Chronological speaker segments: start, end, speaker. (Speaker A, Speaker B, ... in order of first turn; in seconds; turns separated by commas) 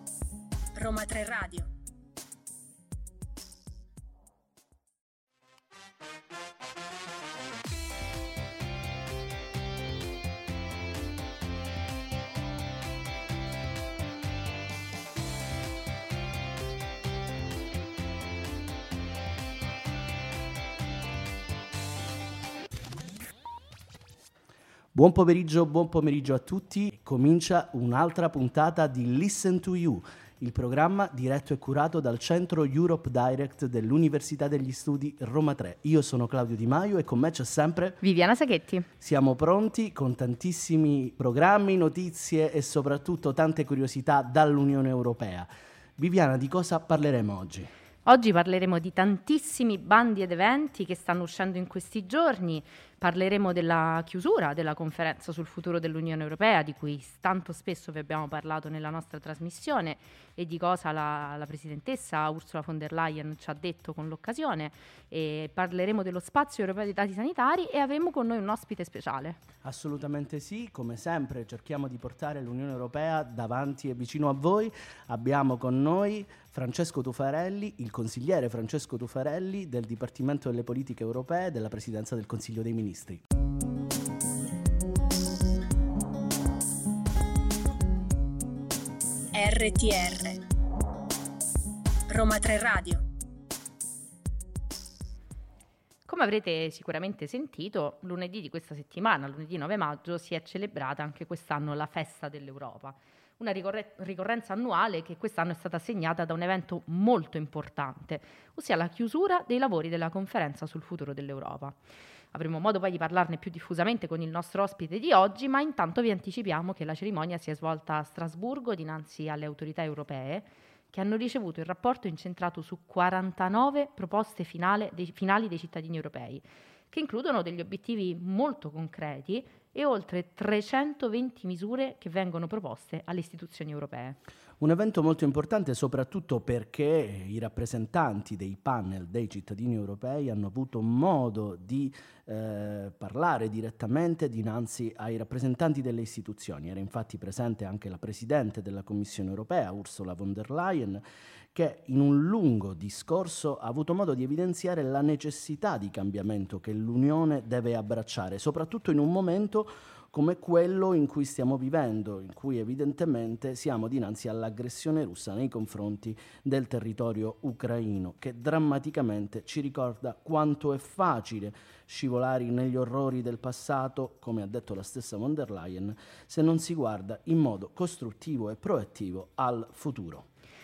Speaker A: 0.7-1.7, Speaker B: 24.9-38.0, Speaker C: 38.0-38.9, Speaker B: 39.0-47.7, Speaker C: 48.0-69.4, Speaker B: 69.6-83.2, Speaker A: 89.3-90.4, Speaker A: 92.1-93.0, Speaker C: 96.0-111.8, Speaker C: 112.3-134.2, Speaker B: 134.6-151.0, Speaker B: 151.5-180.2